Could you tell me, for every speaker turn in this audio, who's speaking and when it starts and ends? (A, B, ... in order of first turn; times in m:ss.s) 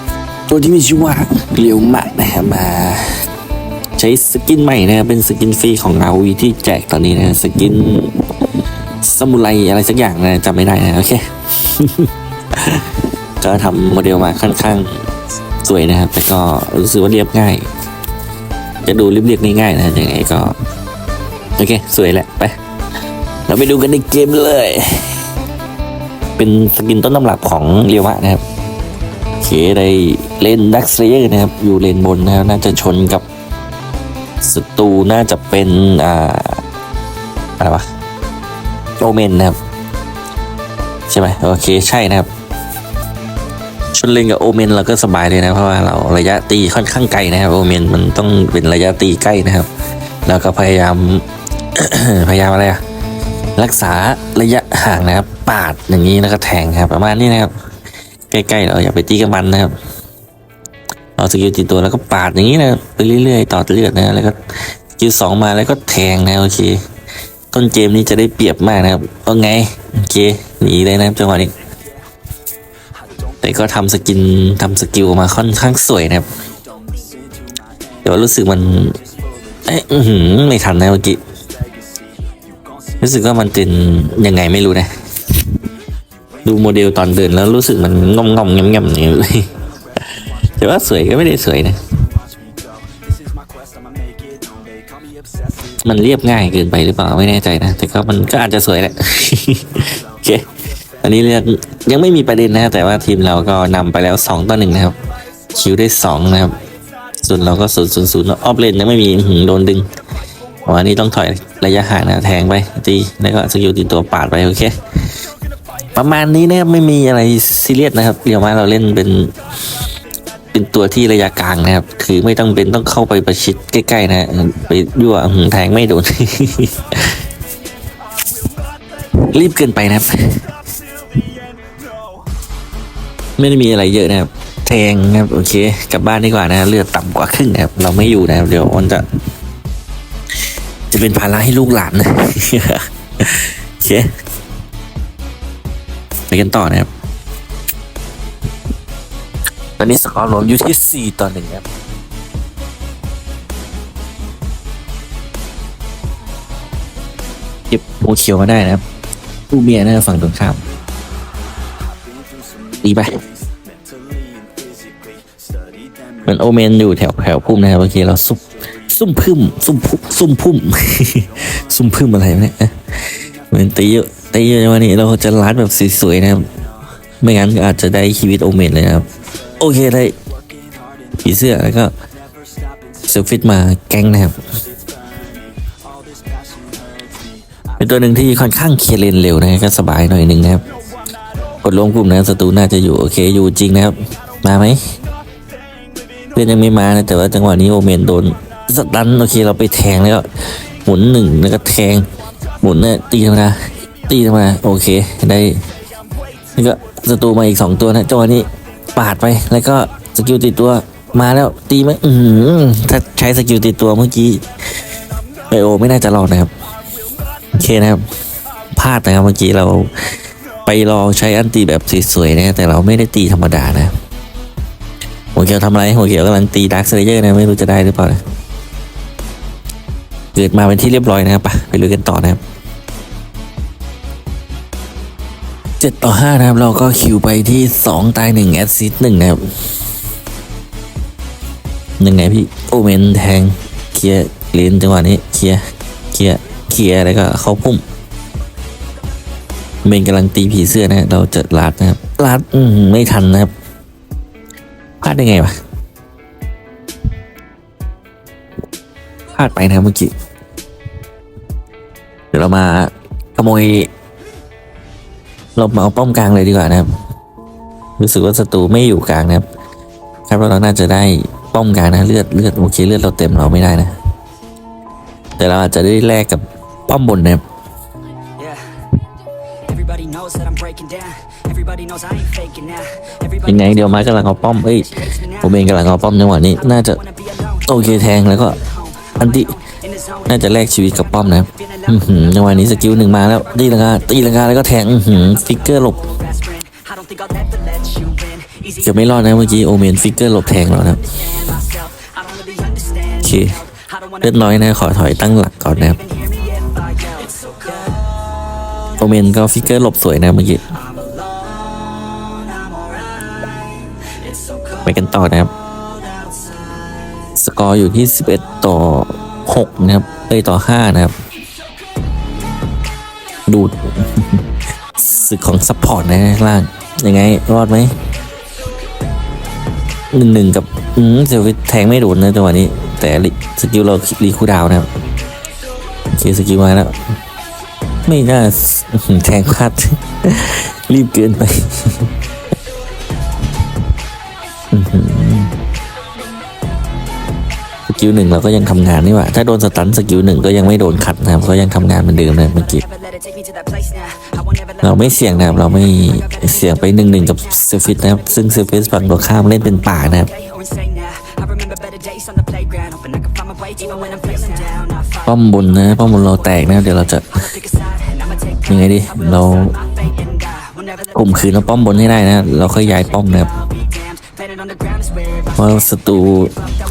0:00.5-0:03.3 A
0:04.0-0:08.5 A
0:09.0-0:15.1 A
0:15.6-0:17.7 A
0:18.8-0:20.6 A
0:21.6-0:22.6 A
0:23.5-0:25.2 A
0:26.4-0:28.4 A
0:29.4-0:33.2 A
0:34.4-0:36.6 A
0:37.6-0:37.9 A
0:39.0-0:39.6 A
0:41.1-0:42.3 A
0:43.9-0:49.7 A
0:50.3-0:52.8 A
0:53.6-0:57.5 A
0:58.3-0:59.7 A
1:01.2-1:06.8 A
1:07.5-1:11.6 A
1:13.4-1:16.3 A
1:16.8-1:17.5 B
1:18.0-1:19.0 A
1:19.6-1:21.2 A
1:23.0-1:25.4 A
1:26.4-1:31.8 A
1:32.5-1:35.2 B
1:35.8-1:40.5 A
1:41.0-1:45.0 A
1:45.5-1:46.6 A
1:47.2-1:49.9 A
1:50.7-1:55.1 A
1:56.0-1:59.4 A
2:00.5-2:07.2 A
2:09.2-2:10.5 A
2:13.4-2:19.1 A
2:20.9-2:24.1 A
2:26.3-2:26.9 A
2:29.8-2:31.7 A
2:37.7-2:38.8 A
2:39.5-2:40.6 A
2:42.8-2:43.2 A
2:44.0-2:45.8 B
2:46.2-2:56.5 A
2:57.2-3:00.2 A
3:01.1-3:01.9 A
3:03.0-3:04.4 A
3:05.2-3:07.2 B
3:07.8-3:10.7 A
3:11.6-3:14.9 A
3:16.4-3:22.1 A
3:22.6-3:25.7 A
3:26.6-3:34.5 A
3:35.5-3:36.5 A
3:37.6-3:38.0 A
3:38.7-3:43.9 A
3:45.4-3:48.2 A
3:50.4-3:52.4 A
3:55.8-3:59.7 A
4:02.0-4:07.8 A
4:09.8-4:13.5 A
4:15.0-4:15.6 A
4:19.3-4:20.1 A
4:22.3-4:23.9 A
4:25.6-4:26.9 A
4:28.0-4:29.4 A
4:30.3-4:34.0 A
4:35.4-4:37.4 A
4:39.7-4:43.2 B
4:43.4-4:47.0 A
4:47.6-4:49.6 A
4:50.3-4:56.1 A
4:56.4-4:58.6 B
4:58.7-5:01.6 A
5:02.0-5:03.1 B
5:03.2-5:03.6 A
5:04.2-5:06.0 A
5:06.4-5:08.0 B
5:09.0-5:10.7 A
5:11.0-5:13.5 B
5:14.0-5:14.6 B
5:14.8-5:15.5 A
5:17.4-5:21.2 A
5:23.5-5:24.4 A
5:25.0-5:27.9 A
5:30.1-5:34.9 A
5:36.1-5:37.0 A
5:38.1-5:42.1 A
5:44.7-5:45.6 A
5:47.9-5:52.8 A
5:53.2-5:54.5 B
5:54.8-6:00.3 A
6:00.6-6:05.0 B
6:05.2-6:07.5 A
6:08.7-6:09.8 A
6:10.3-6:10.8 B
6:11.1-6:13.6 A
6:14.2-6:15.3 B
6:15.5-6:16.6 A